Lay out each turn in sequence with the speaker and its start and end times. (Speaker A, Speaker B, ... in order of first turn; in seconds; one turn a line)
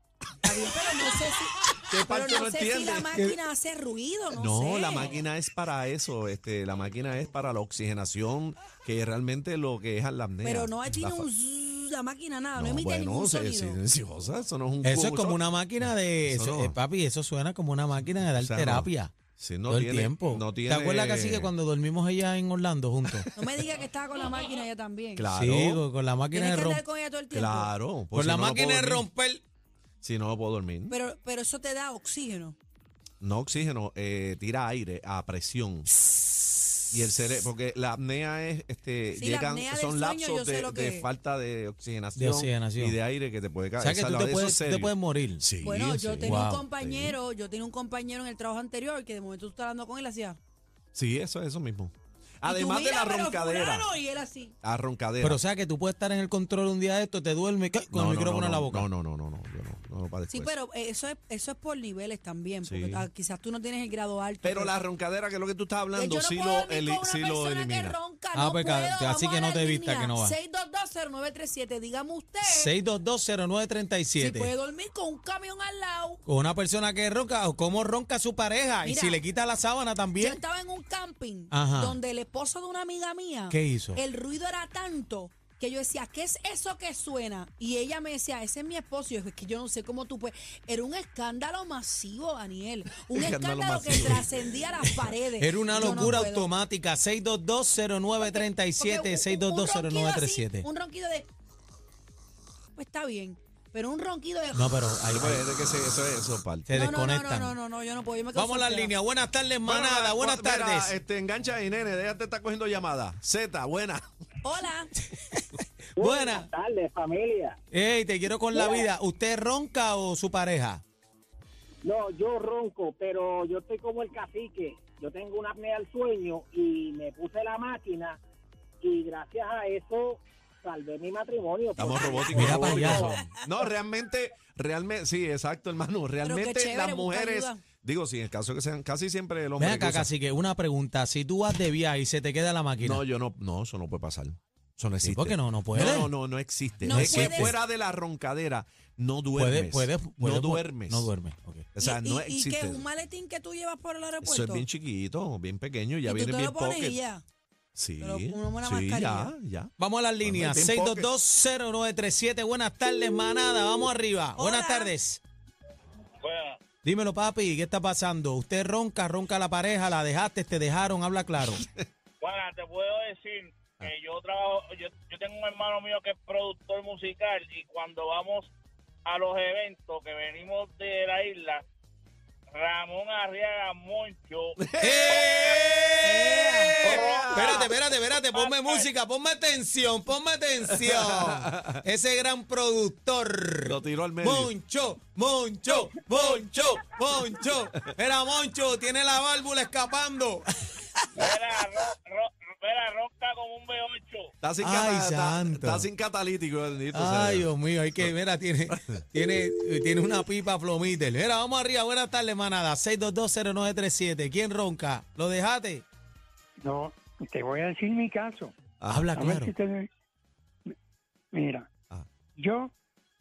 Speaker A: 0.4-5.2
Speaker B: 1.9-3.1
Speaker B: 4.3-11.2
Speaker A: 10.4-13.8
Speaker B: 12.6-16.8
Speaker C: 14.8-19.1
Speaker B: 18.4-21.5
Speaker C: 19.7-23.3
Speaker A: 23.4-25.2
Speaker B: 25.1-25.8
Speaker C: 25.4-26.8
Speaker A: 26.3-27.7
Speaker B: 27.3-29.1
Speaker C: 28.1-29.4
Speaker B: 30.0-30.9
Speaker A: 30.9-32.5
Speaker B: 33.2-35.9
Speaker B: 36.9-47.1
Speaker A: 39.1-41.1
Speaker C: 42.2-43.0
Speaker C: 43.8-45.4
Speaker A: 45.6-50.4
Speaker C: 46.2-46.6
Speaker B: 50.9-53.9
Speaker A: 52.4-54.5
Speaker B: 54.6-55.4
Speaker C: 55.2-58.9
Speaker B: 57.9-60.5
Speaker A: 60.3-64.8
Speaker B: 62.6-63.0
Speaker B: 64.4-68.0
Speaker A: 65.9-72.8
Speaker C: 68.3-70.3
Speaker C: 72.5-74.5
Speaker A: 74.2-76.2
Speaker C: 76.2-80.4
Speaker A: 78.8-79.2
Speaker A: 80.2-96.5
Speaker C: 81.5-82.0
Speaker C: 83.5-84.0
Speaker B: 93.1-94.4
Speaker C: 95.4-100.7
Speaker B: 95.8-96.1
Speaker A: 98.2-101.3
Speaker A: 102.8-104.8
Speaker C: 104.5-105.5
Speaker B: 105.1-106.7
Speaker C: 106.7-107.5
Speaker A: 106.7-108.9
Speaker C: 108.4-110.9
Speaker B: 109.6-114.1
Speaker A: 114.4-114.9
Speaker C: 116.0-116.5
Speaker D: 116.0-117.5
Speaker C: 117.7-120.8
Speaker D: 121.9-128.2
Speaker D: 128.8-133.0
Speaker B: 131.8-140.1
Speaker C: 132.3-133.2
Speaker A: 136.2-137.6
Speaker C: 139.6-143.0
Speaker B: 142.8-151.1
Speaker C: 145.0-146.1
Speaker A: 146.8-147.5
Speaker C: 146.9-147.5
Speaker C: 149.3-151.7
Speaker B: 151.7-152.8
Speaker A: 151.8-154.7
Speaker B: 154.2-157.0
Speaker A: 156.0-157.2
Speaker B: 157.8-161.1
Speaker A: 158.0-159.3
Speaker C: 159.8-165.2
Speaker A: 164.4-164.9
Speaker E: 166.2-166.6
Speaker C: 166.8-171.6
Speaker E: 172.2-178.5
Speaker E: 179.0-181.6
Speaker E: 182.5-184.6
Speaker B: 184.7-186.1
Speaker C: 184.8-201.2
Speaker A: 186.0-186.8
Speaker B: 186.8-187.7
Speaker E: 186.8-188.9
Speaker B: 190.8-191.8
Speaker B: 193.7-194.5
Speaker E: 201.2-204.3
Speaker B: 204.4-208.1
Speaker C: 204.6-205.9
Speaker C: 206.9-215.8
Speaker F: 216.6-218.5
Speaker B: 218.8-219.1
Speaker C: 218.9-219.5
Speaker F: 219.2-219.9
Speaker F: 221.3-221.7
Speaker F: 222.4-222.7